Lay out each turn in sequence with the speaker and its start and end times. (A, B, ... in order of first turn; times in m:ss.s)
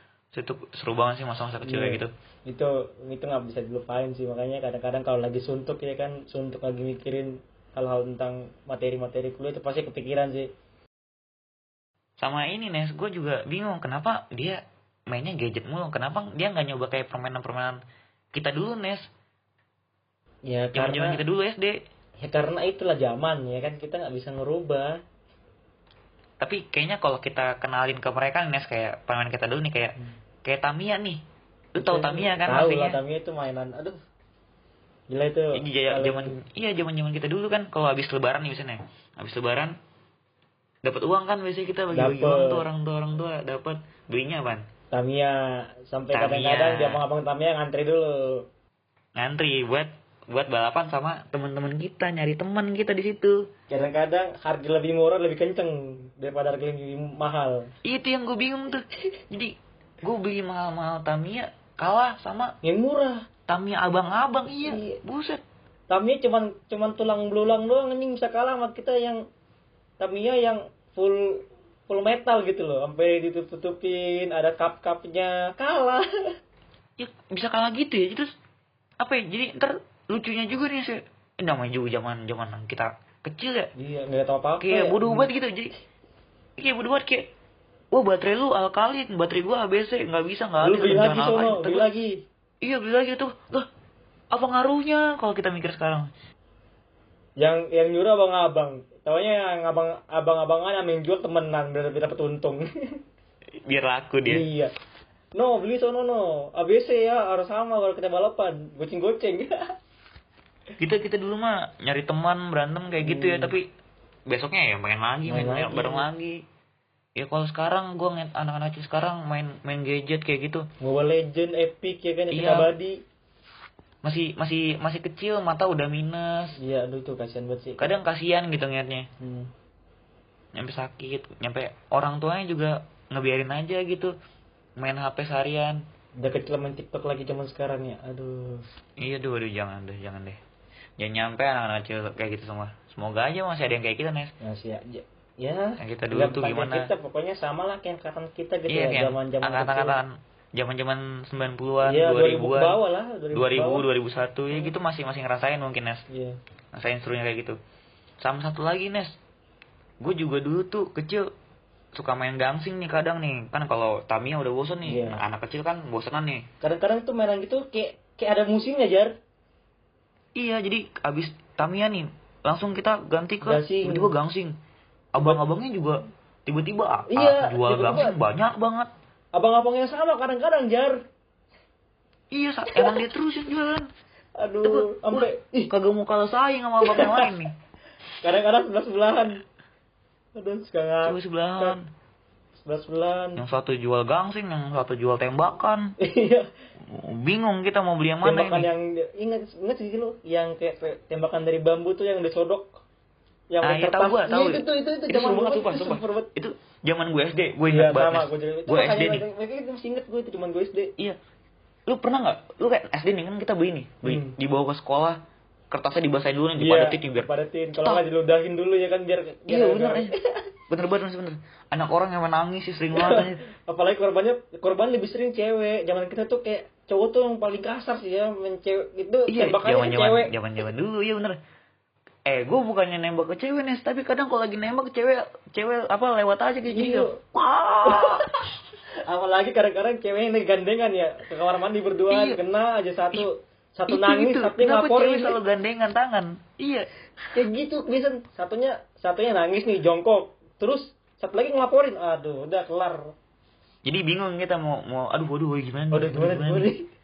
0:00.3-0:02.1 A
0:01.6-0:10.5 B
0:12.2-0:17.8 A
0:18.3-0:19.1 A
0:20.4-0:21.2 B
0:20.7-0:21.8 A
0:22.2-0:25.0 B
0:26.4-0:31.2 A
0:31.7-0:33.0 A
0:31.8-0:34.0 B
0:35.1-0:36.4 B
0:35.5-0:39.8 A
0:40.8-0:44.7 A
0:41.9-0:42.6 B
0:44.9-0:48.4 B
0:46.1-0:47.0 A
0:49.2-0:53.5 A
0:53.7-0:57.7 B
0:57.8-1:02.6 A
1:02.6-1:03.2 B
1:03.5-1:05.4 A
1:04.6-1:05.0 B
1:05.9-1:09.2 B
1:10.0-1:16.3 B
1:17.0-1:18.3 A
1:19.0-1:23.7 A
1:23.7-1:25.3 B
1:24.6-1:25.7 A
1:26.6-1:27.3 A
1:27.9-1:31.9 A
1:30.6-1:32.2 B
1:32.6-1:33.7 A
1:34.3-1:36.1 A
1:37.4-1:42.7 B
1:43.6-1:44.4 A
1:44.2-1:44.7 B
1:45.3-1:49.6 B
1:50.8-1:53.7 A
1:53.0-1:53.5 B
1:54.3-1:56.4 A
1:55.3-1:56.1 B
1:57.2-2:00.7 A
2:00.8-2:03.0 B
2:02.3-2:02.7 A
2:04.0-2:06.6 A
2:06.6-2:07.9 B
2:07.8-2:09.1 A
2:09.2-2:09.5 B
2:10.6-2:14.1 A
2:14.8-2:15.8 A
2:16.2-2:18.6 B
2:19.0-2:20.4 A
2:21.0-2:24.3 A
2:24.4-2:30.0 B
2:25.8-2:26.9 A
2:28.7-2:32.8 A
2:31.8-2:33.8 B
2:33.3-2:36.0 A
2:36.1-2:36.4 B
2:36.7-2:37.6 A
2:38.2-2:39.2 A
2:40.0-2:41.3 A
2:41.9-2:46.5 A
2:44.8-2:45.2 B
2:46.6-2:49.2 B
2:50.4-2:54.6 A
2:53.4-2:54.1 B
2:55.1-2:58.9 A
2:55.2-2:55.4 B
2:57.1-2:58.2 B
2:59.3-3:01.0 B
3:02.3-3:03.9 A
3:04.4-3:05.7 B
3:04.6-3:07.5 A
3:06.8-3:07.3 B
3:08.2-3:09.4 B
3:10.4-3:11.8 B
3:11.0-3:11.9 A
3:12.6-3:13.4 B
3:13.4-3:15.9 A
3:16.0-3:16.5 B
3:16.9-3:18.7 A
3:18.2-3:22.8 B
3:23.5-3:26.3 B
3:23.6-3:29.2 A
3:27.7-3:30.9 B
3:31.9-3:37.3 A
3:34.0-3:34.3 B
3:36.6-3:40.3 B
3:39.5-3:40.1 A
3:40.7-3:43.4 A
3:42.9-3:50.3 B
3:49.3-3:51.4 A
3:52.2-3:58.3 A
3:56.7-3:57.2 B
3:57.8-3:58.4 B
3:59.0-4:05.4 B
4:02.1-4:02.4 A
4:03.9-4:06.9 A
4:07.3-4:13.1 B
4:13.8-4:16.7 A
4:15.9-4:16.9 B